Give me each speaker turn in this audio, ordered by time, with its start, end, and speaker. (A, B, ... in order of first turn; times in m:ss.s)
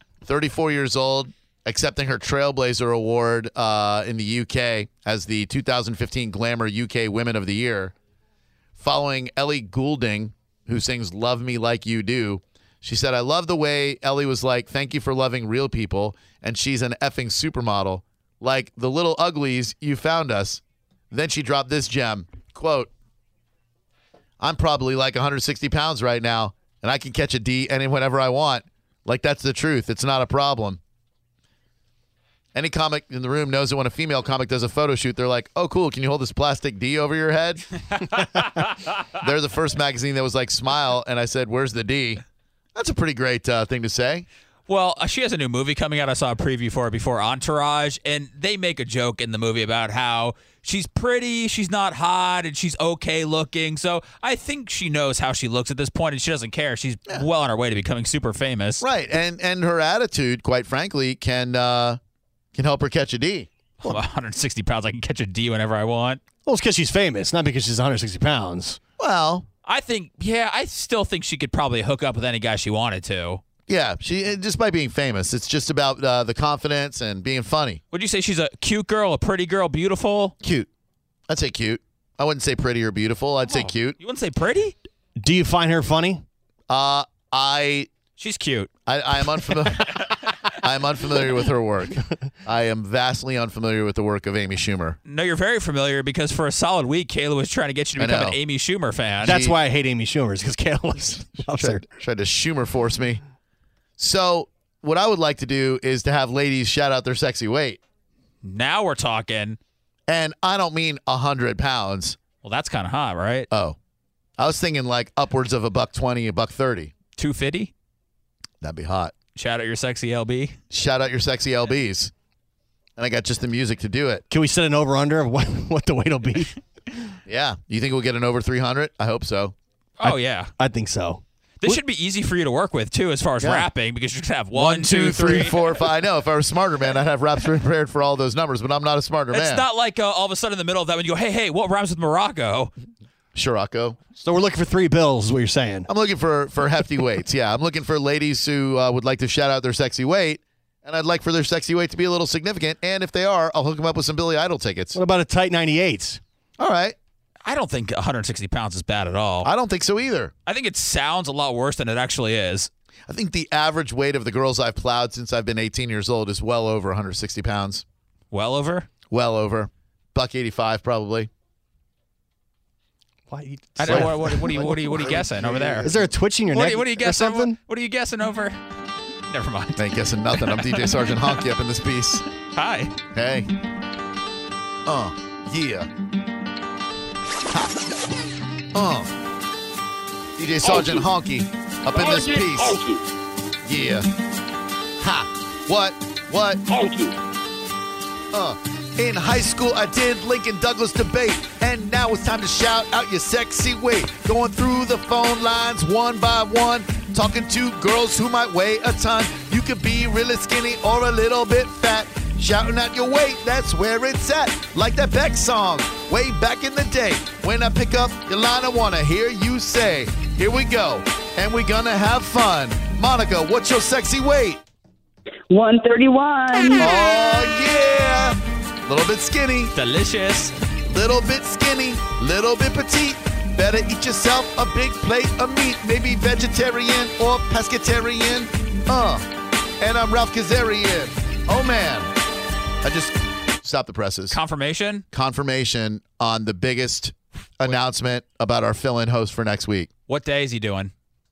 0:00.2-0:07.9 A
0:08.8-0:22.9 A
0:24.4-0:30.8 A
0:32.5-0:37.6 A
0:38.0-0:39.0 B
0:39.2-0:42.2 A
0:42.7-0:44.2 A
0:44.7-0:58.8 B
0:58.8-1:02.0 A
1:02.5-1:04.0 A
1:03.8-1:06.2 B
1:06.4-1:08.8 C
1:09.0-1:09.4 A
1:09.6-1:13.4 B
1:13.7-1:17.8 A
1:17.9-1:20.3 B
1:20.4-1:20.7 A
1:21.3-1:24.0 A
1:23.5-1:24.7 B
1:25.2-1:26.2 C
1:26.7-1:27.9 A
1:28.2-1:28.7 B
1:28.9-1:29.9 A
1:29.4-1:30.3 B
1:30.6-1:35.0 A
1:35.1-1:39.4 B
1:38.0-1:38.4 A
1:39.2-1:39.6 A
1:39.2-1:41.8 C
1:41.5-1:43.2 A
1:44.0-1:47.8 A
1:48.4-1:49.6 B
1:50.1-1:52.2 A
1:52.4-1:53.5 B
1:53.5-1:53.8 A
1:54.4-1:56.9 A
1:57.2-1:57.7 B
1:58.6-1:59.1 A
1:59.3-2:00.6 B
2:00.7-2:02.1 A
2:03.0-2:04.2 A
2:04.3-2:06.6 C
2:07.3-2:09.5 A
2:10.0-2:10.5 B
2:10.0-2:11.8 C
2:11.6-2:15.8 B
2:13.4-2:13.7 A
2:14.5-2:19.6 A
2:19.3-2:22.7 B
2:23.3-2:24.0 A
2:24.2-2:25.9 C
2:25.9-2:35.0 A
2:34.9-2:36.2 C
2:36.6-2:37.0 A
2:37.4-2:39.5 B
2:39.4-2:40.3 A
2:40.5-2:42.7 B
2:43.1-2:47.8 A
2:48.3-2:48.9 B
2:49.1-2:51.3 A
2:53.3-2:57.6 C
2:53.8-2:56.0 B
2:53.8-2:54.1 A
2:54.9-2:55.9 A
2:56.5-2:58.6 B
2:59.3-3:01.4 B
2:59.8-3:02.3 A
3:02.5-3:02.9 B
3:03.1-3:03.5 A
3:04.8-3:05.9 A
3:08.7-3:09.1 A
3:10.4-3:12.8 A
3:11.9-3:13.0 D
3:13.6-3:14.1 A
3:15.0-3:16.6 A
3:16.7-3:17.1 D
3:18.3-3:44.6 A
3:45.5-3:46.9 D
3:46.8-3:49.7 A
3:49.7-3:50.5 B
3:50.9-3:59.3 A
3:59.8-4:02.1 A
4:02.8-4:04.4 A
4:04.3-4:05.0 B
4:05.1-4:09.9 A
4:10.1-4:10.9 B